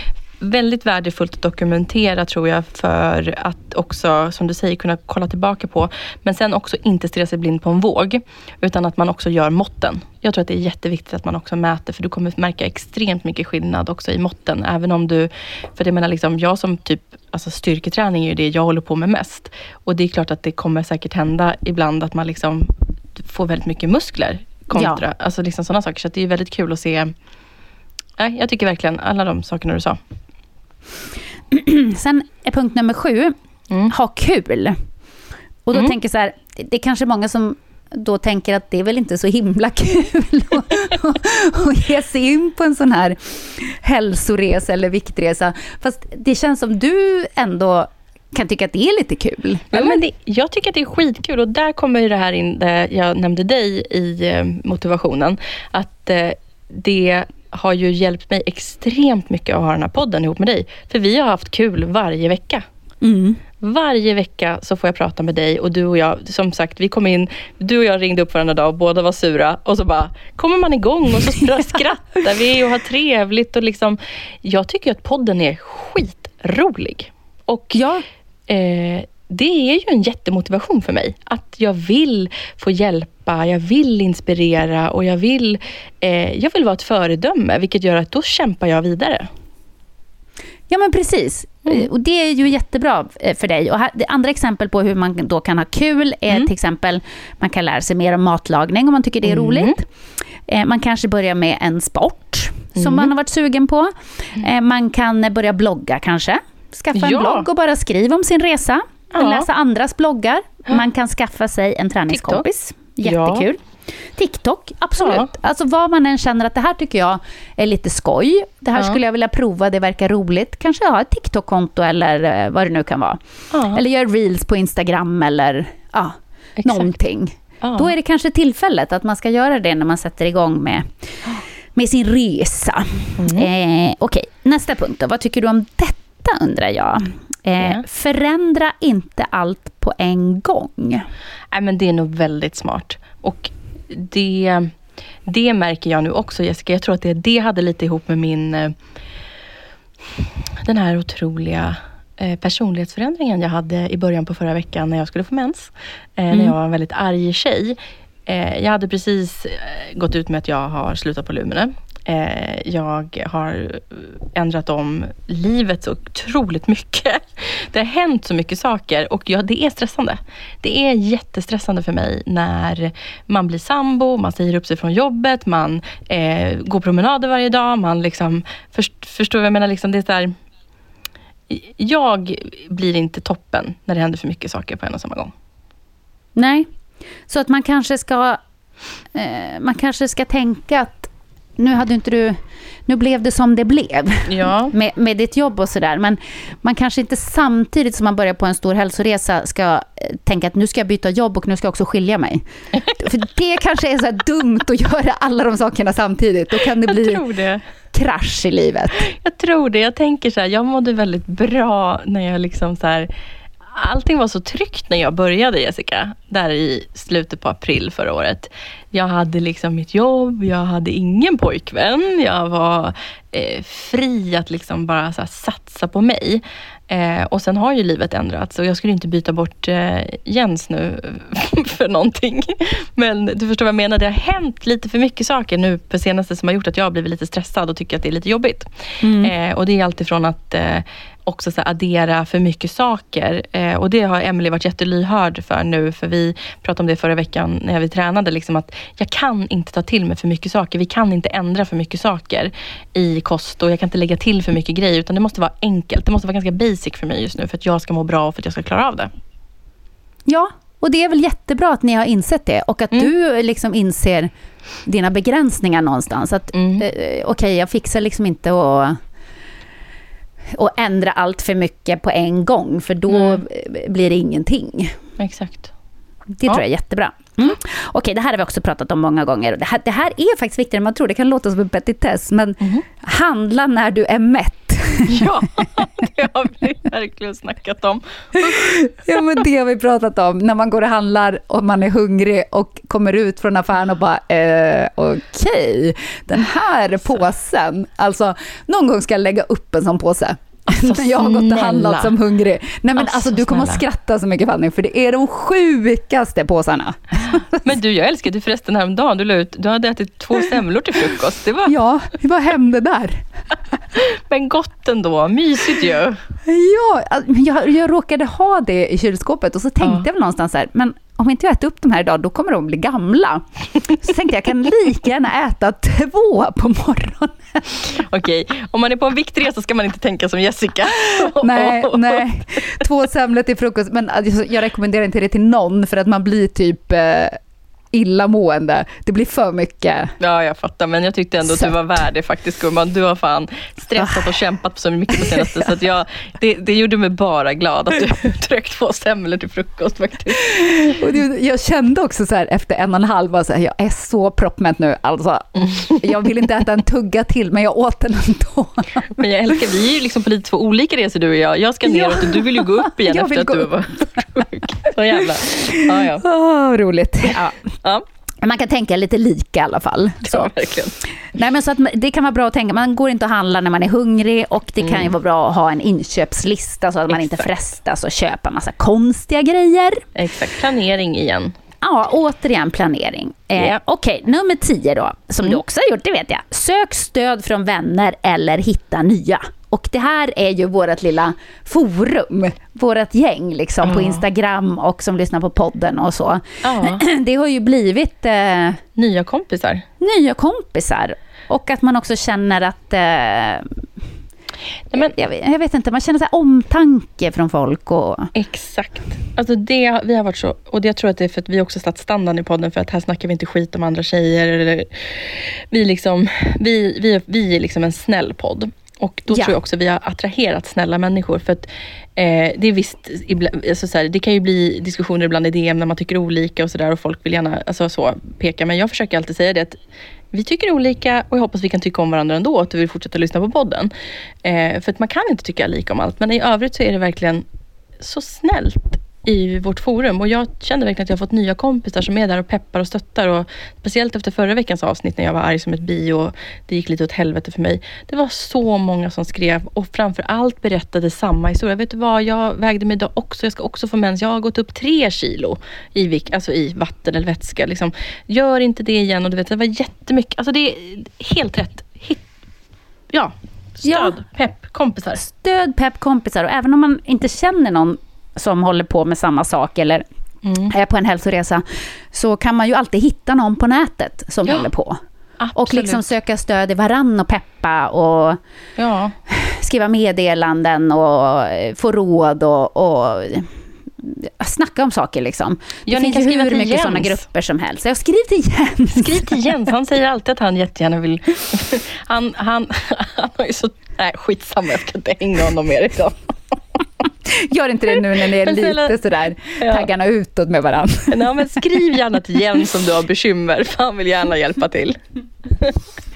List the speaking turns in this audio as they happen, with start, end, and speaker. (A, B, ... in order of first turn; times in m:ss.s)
0:00.4-0:27.1 A
0:24.7-0:25.0 B
0:28.2-0:30.0 A
0:31.5-0:33.4 B
0:33.9-0:34.8 B
0:35.6-0:50.0 B
0:49.7-1:02.6 A
1:03.0-1:03.4 B
1:03.6-1:17.8 A
1:17.7-1:18.0 B
1:18.5-1:29.3 A
1:30.7-1:39.8 B
1:39.2-1:39.8 A
1:40.5-1:53.6 B
1:42.8-1:43.1 A
1:46.9-1:47.5 A
1:49.1-1:49.5 A
1:52.1-1:52.4 A
1:53.0-1:53.5 A
1:54.2-2:10.9 B
1:55.0-1:55.3 A
2:03.5-2:03.8 A
2:06.6-2:06.9 A
2:07.6-2:07.9 A
2:11.7-2:21.0 B
2:13.2-2:13.5 A
2:21.5-2:28.8 A
2:30.2-3:00.3 A
3:01.5-3:05.3 A
3:06.4-3:06.7 B
3:07.3-3:08.4 B
3:09.1-3:22.4 B
3:14.3-3:14.7 A
3:22.9-3:27.2 B
3:26.5-3:27.6 A
3:27.9-3:29.0 B
3:29.0-3:33.1 A
3:33.7-4:19.1 A
3:59.0-3:59.3 B
4:20.3-4:24.3 B
4:24.8-4:29.0 B
4:26.5-4:26.8 A
4:30.5-4:34.9 B
4:33.1-4:33.4 A
4:35.2-4:35.7 A
4:36.4-4:45.2 B
4:45.1-4:48.6 A
4:48.3-5:07.6 B
5:00.7-5:02.2 A
5:03.0-5:03.8 A
5:07.3-5:11.7 A
5:11.6-5:13.2 B
5:13.9-5:16.2 A
5:16.4-5:27.8 B
5:19.8-5:20.0 A
5:27.9-5:32.6 A
5:31.0-5:37.4 B
5:37.9-5:40.1 B
5:40.2-5:50.4 A
5:41.4-5:41.7 B
5:50.4-5:59.1 B
5:55.6-5:56.0 A
5:59.2-6:06.2 A
6:01.9-6:04.2 B
6:05.2-6:07.7 B
6:07.2-6:08.0 A
6:08.4-6:10.5 B
6:10.2-6:11.0 A
6:11.3-6:20.0 B
6:14.8-6:15.1 A
6:17.1-6:17.5 A
6:20.1-6:21.5 A
6:21.8-6:38.8 B
6:33.8-6:34.2 A
6:36.6-6:37.0 A
6:39.0-6:39.8 A
6:40.0-6:43.8 B
6:44.9-6:45.1 A
6:45.0-6:48.3 B
6:48.3-7:09.8 A
6:59.3-6:59.6 B
7:10.3-7:13.9 A
7:14.4-7:17.4 A
7:18.0-7:42.2 A
7:43.1-7:45.2 A
7:43.8-7:44.2 B
7:45.2-7:50.0 B
7:50.4-7:50.7 A
7:50.6-7:55.0 B
7:55.4-7:56.1 A
7:55.5-7:58.4 B
7:58.8-7:59.2 A
7:59.3-8:03.5 B
8:04.0-8:09.4 B
8:05.9-8:07.2 A
8:08.9-8:16.3 A
8:17.3-8:21.6 B
8:17.9-8:19.9 A
8:21.1-8:25.8 A